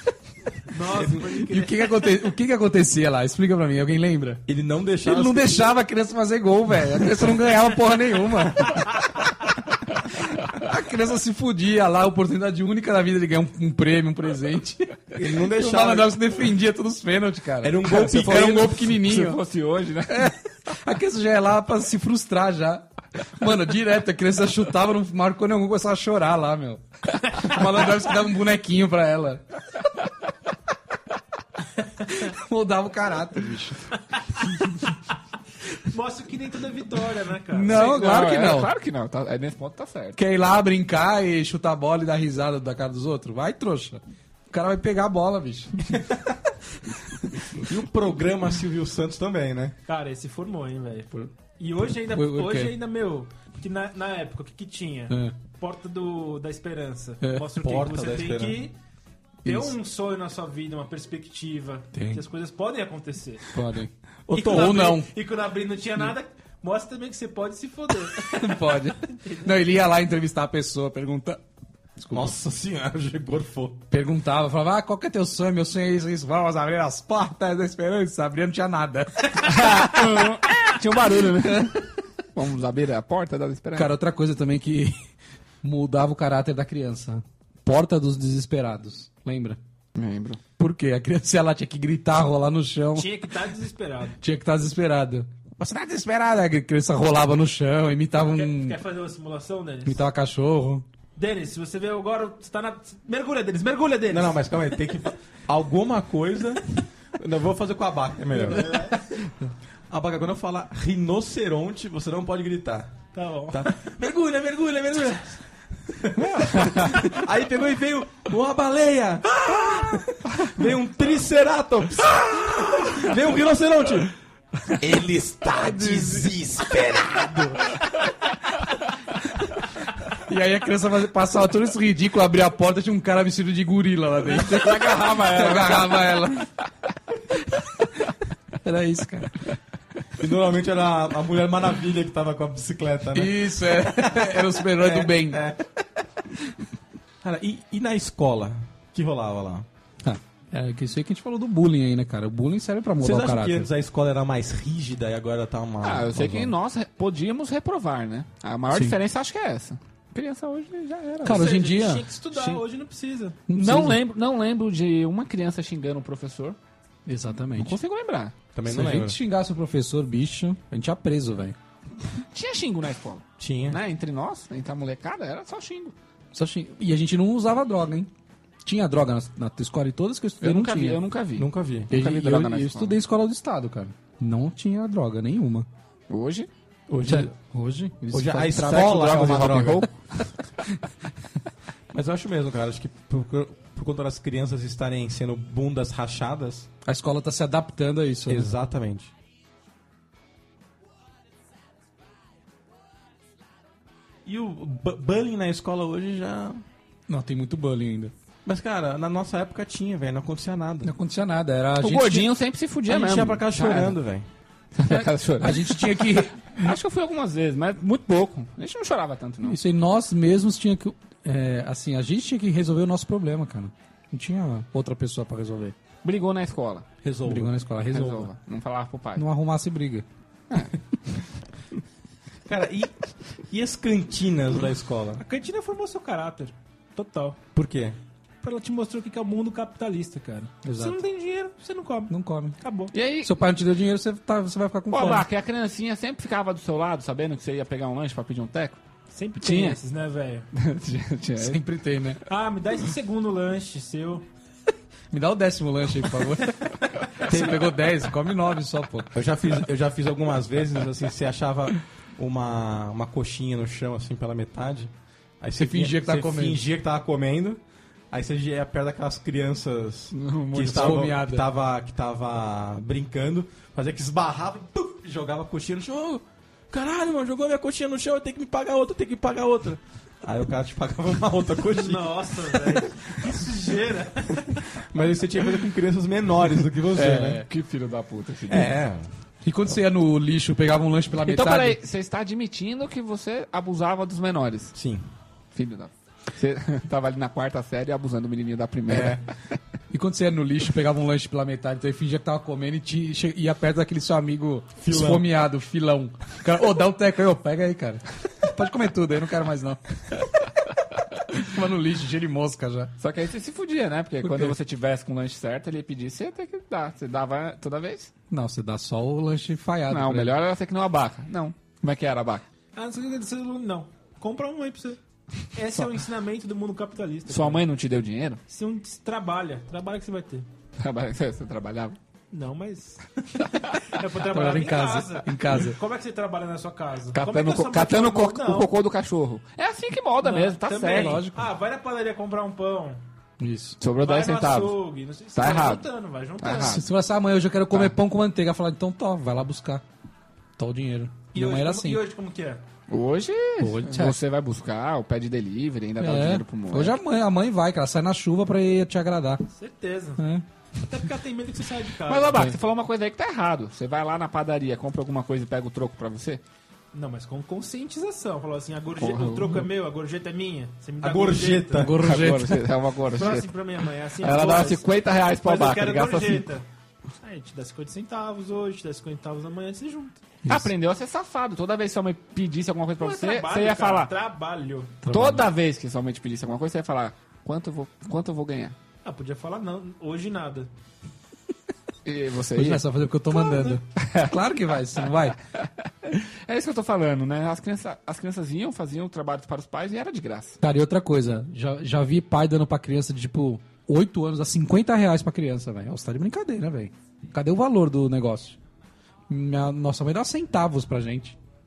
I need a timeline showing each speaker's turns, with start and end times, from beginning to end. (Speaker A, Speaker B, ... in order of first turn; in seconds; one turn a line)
Speaker A: 0.7-1.9
Speaker B: 1.4-4.5
Speaker C: 4.5-5.6
Speaker B: 5.0-9.0
Speaker B: 10.4-19.4
Speaker C: 15.1-16.1
Speaker C: 17.6-18.8
Speaker D: 17.9-20.3
Speaker B: 20.1-29.4
Speaker B: 32.1-33.9
Speaker A: 35.8-38.2
Speaker B: 37.5-38.7
Speaker D: 37.7-40.2
Speaker B: 40.2-46.0
Speaker C: 47.6-49.8
Speaker A: 49.9-58.7
Speaker B: 51.8-52.8
Speaker B: 55.1-55.4
Speaker B: 57.2-57.5
Speaker C: 57.6-58.7
Speaker A: 59.4-63.6
Speaker B: 59.5-59.8
Speaker B: 62.0-62.2
Speaker B: 63.5-65.1
Speaker C: 64.3-65.0
Speaker A: 64.3-69.5
Speaker B: 68.3-71.4
Speaker B: 72.0-72.3
Speaker C: 72.1-73.8
Speaker B: 73.9-80.3
Speaker D: 79.4-84.0
Speaker B: 83.8-85.0
Speaker B: 85.6-89.6
Speaker D: 90.0-90.4
Speaker B: 90.6-93.2
Speaker A: 93.0-94.2
Speaker B: 94.2-98.8
Speaker A: 98.2-100.0
Speaker B: 99.8-100.9
Speaker A: 101.2-104.4
Speaker C: 104.1-108.8
Speaker A: 108.3-109.0
Speaker B: 108.7-109.5
Speaker C: 109.9-113.0
Speaker A: 113.1-113.7
Speaker C: 113.5-124.1
Speaker D: 116.2-117.0
Speaker C: 124.8-127.8
Speaker D: 125.6-126.3
Speaker B: 130.2-136.5
Speaker D: 134.4-136.1
Speaker B: 138.6-139.4
Speaker C: 140.2-145.6
Speaker B: 143.1-145.4
Speaker C: 147.2-149.7
Speaker B: 150.0-153.7
Speaker C: 153.0-156.5
Speaker D: 155.8-161.5
Speaker B: 158.7-159.0
Speaker B: 161.2-162.1
Speaker A: 161.2-163.4
Speaker D: 162.3-162.6
Speaker B: 163.5-164.0
Speaker D: 163.5-166.6
Speaker B: 167.1-167.8
Speaker D: 167.6-168.3
Speaker C: 168.5-169.2
Speaker B: 168.7-171.6
Speaker D: 172.3-175.9
Speaker C: 173.4-173.8
Speaker B: 176.3-178.1
Speaker B: 178.6-181.0
Speaker D: 180.4-183.0
Speaker C: 181.4-181.9
Speaker B: 181.9-185.7
Speaker D: 186.1-186.5
Speaker C: 186.9-187.3
Speaker B: 187.0-189.7
Speaker C: 188.1-189.9
Speaker D: 188.5-190.3
Speaker C: 191.9-196.7
Speaker B: 196.8-198.5
Speaker C: 198.3-199.1
Speaker C: 204.2-206.6
Speaker B: 207.1-208.1
Speaker C: 208.5-210.9
Speaker B: 210.8-212.3
Speaker D: 211.8-214.0
Speaker C: 212.9-214.3
Speaker D: 214.8-219.6
Speaker B: 214.9-216.8
Speaker B: 219.4-225.8
Speaker D: 226.0-226.9
Speaker C: 227.0-227.6
Speaker B: 227.2-228.3
Speaker D: 227.9-229.2
Speaker B: 229.2-230.1
Speaker D: 230.5-230.8
Speaker C: 232.5-235.2
Speaker A: 235.2-237.4
Speaker C: 237.6-238.0
Speaker A: 238.4-242.9
Speaker B: 240.6-241.0
Speaker B: 242.1-242.6
Speaker D: 242.9-243.3
Speaker B: 243.2-245.3
Speaker D: 244.9-248.8
Speaker A: 249.1-250.5
Speaker D: 249.4-249.8
Speaker D: 250.5-251.6
Speaker B: 251.4-252.2
Speaker A: 252.3-254.3
Speaker B: 255.1-259.1
Speaker C: 257.3-257.6
Speaker C: 259.1-282.9
Speaker B: 265.6-266.6
Speaker D: 270.1-271.1
Speaker B: 270.6-271.5
Speaker A: 281.7-284.7
Speaker C: 284.8-287.4
Speaker B: 286.9-287.4
Speaker D: 287.1-288.8
Speaker C: 288.5-289.1
Speaker B: 289.4-291.8
Speaker D: 291.2-294.8
Speaker C: 294.8-295.1
Speaker D: 295.5-299.2
Speaker C: 298.9-299.2
Speaker B: 299.9-310.3
Speaker C: 304.8-305.2
Speaker B: 311.3-312.9
Speaker D: 313.0-318.1
Speaker B: 314.2-314.6
Speaker B: 318.3-320.4
Speaker D: 319.9-322.4
Speaker A: 322.8-325.0
Speaker A: 325.5-327.6
Speaker D: 327.3-328.4
Speaker A: 328.5-330.5
Speaker D: 330.8-332.0
Speaker A: 332.3-338.7
Speaker B: 334.2-335.8
Speaker D: 337.1-341.2
Speaker A: 340.2-343.0
Speaker B: 340.9-341.4
Speaker B: 343.4-343.8
Speaker D: 343.8-344.8
Speaker A: 344.0-346.8
Speaker D: 345.3-345.9
Speaker D: 346.4-346.8
Speaker B: 346.5-349.8
Speaker B: 350.6-352.0
Speaker A: 351.3-352.6
Speaker D: 352.9-357.0
Speaker B: 353.6-354.2
Speaker B: 356.0-359.4
Speaker A: 359.5-360.2
Speaker B: 360.2-360.5
Speaker A: 360.8-362.5
Speaker D: 362.1-366.4
Speaker A: 366.9-371.9
Speaker D: 369.0-369.6
Speaker C: 371.0-372.0
Speaker B: 371.7-372.7
Speaker D: 372.0-373.5
Speaker A: 373.1-376.7
Speaker D: 374.2-376.4
Speaker A: 377.2-380.2
Speaker B: 380.4-380.7
Speaker D: 380.5-384.1
Speaker A: 383.0-385.0
Speaker B: 385.0-385.5
Speaker D: 385.1-388.8
Speaker A: 389.1-390.7
Speaker D: 392.1-392.8
Speaker B: 392.5-395.4
Speaker A: 393.4-393.8
Speaker D: 394.0-394.3
Speaker D: 396.1-400.6
Speaker B: 400.6-408.6
Speaker B: 409.3-411.4